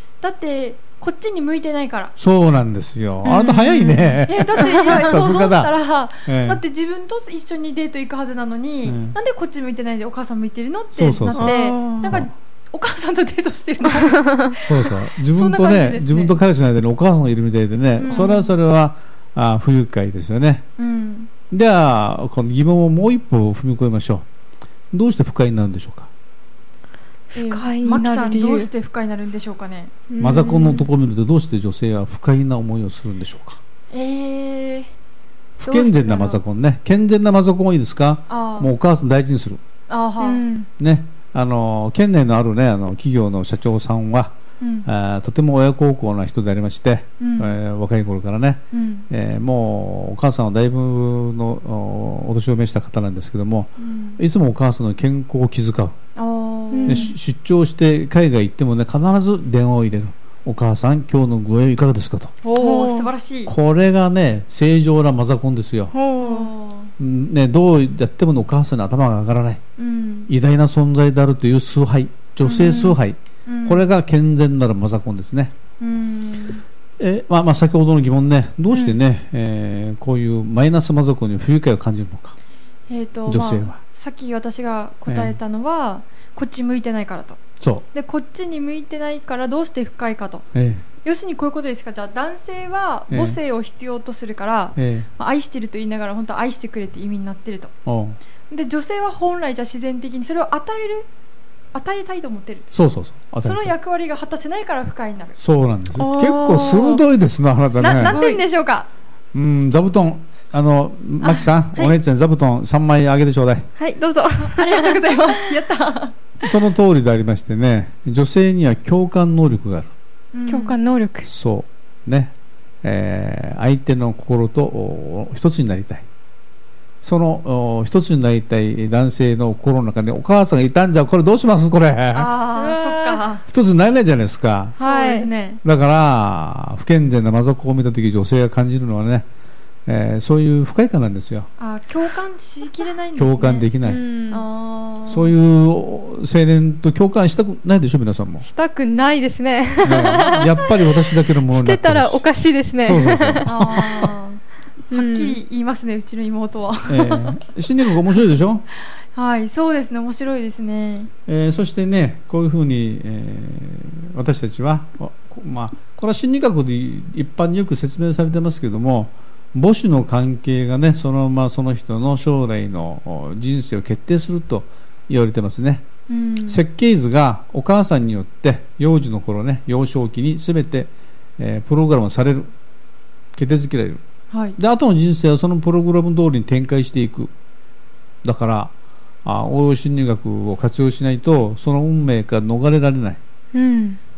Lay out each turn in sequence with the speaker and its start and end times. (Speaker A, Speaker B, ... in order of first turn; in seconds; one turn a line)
Speaker A: 0.2-2.1
Speaker B: 2.2-5.7
Speaker C: 3.2-4.2
Speaker A: 4.2-16.4
Speaker C: 4.7-5.0
Speaker B: 6.2-6.6
Speaker B: 8.8-9.2
Speaker B: 10.9-12.3
Speaker C: 11.3-12.1
Speaker B: 14.6-20.6
Speaker A: 18.0-18.5
Speaker A: 20.8-21.3
Speaker B: 21.5-24.2
Speaker B: 24.9-26.1
Speaker C: 27.3-28.7
Speaker A: 27.3-29.9
Speaker C: 30.1-30.9
Speaker B: 30.2-33.6
Speaker A: 33.9-34.9
Speaker B: 35.6-39.6
Speaker A: 35.6-36.4
Speaker A: 38.3-38.7
Speaker A: 39.9-40.4
Speaker C: 40.2-40.7
Speaker B: 40.8-56.0
Speaker A: 44.6-44.9
Speaker A: 47.2-47.5
Speaker A: 48.7-49.1
Speaker A: 53.8-54.2
Speaker A: 56.1-57.1
Speaker C: 56.7-57.1
Speaker B: 56.9-62.4
Speaker A: 62.4-63.5
Speaker C: 62.5-63.1
Speaker B: 63.5-65.9
Speaker C: 65.9-66.5
Speaker A: 66.2-66.9
Speaker B: 67.0-69.6
Speaker A: 69.8-70.3
Speaker B: 70.3-75.5
Speaker A: 72.4-73.8
Speaker C: 72.5-73.0
Speaker A: 75.8-76.6
Speaker B: 77.0-82.4
Speaker A: 82.9-87.4
Speaker B: 83.3-83.8
Speaker B: 85.1-85.4
Speaker B: 87.6-87.9
Speaker A: 87.9-90.5
Speaker B: 90.5-90.8
Speaker A: 91.0-97.7
Speaker B: 93.1-93.4
Speaker B: 94.8-95.1
Speaker B: 97.9-98.2
Speaker A: 98.5-101.1
Speaker A: 101.7-102.7
Speaker B: 102.7-103.7
Speaker A: 103.4-105.4
Speaker B: 105.4-108.2
Speaker C: 105.9-107.0
Speaker A: 107.8-108.9
Speaker C: 107.8-108.4
Speaker B: 109.3-113.7
Speaker A: 111.2-111.9
Speaker C: 113.8-115.5
Speaker A: 114.4-116.2
Speaker B: 116.4-119.9
Speaker A: 120.3-120.8
Speaker C: 120.5-121.3
Speaker B: 121.2-126.0
Speaker B: 127.0-132.3
Speaker A: 132.1-133.4
Speaker C: 132.5-133.2
Speaker B: 133.4-134.8
Speaker C: 134.8-135.3
Speaker A: 134.8-135.6
Speaker B: 135.6-139.2
Speaker B: 139.9-141.5
Speaker A: 141.6-143.7
Speaker B: 143.2-144.0
Speaker C: 143.8-144.4
Speaker A: 144.3-145.3
Speaker B: 145.1-148.5
Speaker C: 148.4-153.5
Speaker B: 149.8-152.3
Speaker B: 152.8-154.1
Speaker A: 153.4-157.4
Speaker C: 154.9-155.4
Speaker B: 156.9-158.7
Speaker A: 159.1-161.1
Speaker B: 161.3-175.9
Speaker A: 176.1-176.6
Speaker B: 176.5-182.5
Speaker B: 183.4-184.0
Speaker A: 184.3-184.6
Speaker B: 184.6-187.3
Speaker B: 188.2-188.7
Speaker B: 189.2-193.2
Speaker C: 193.5-194.0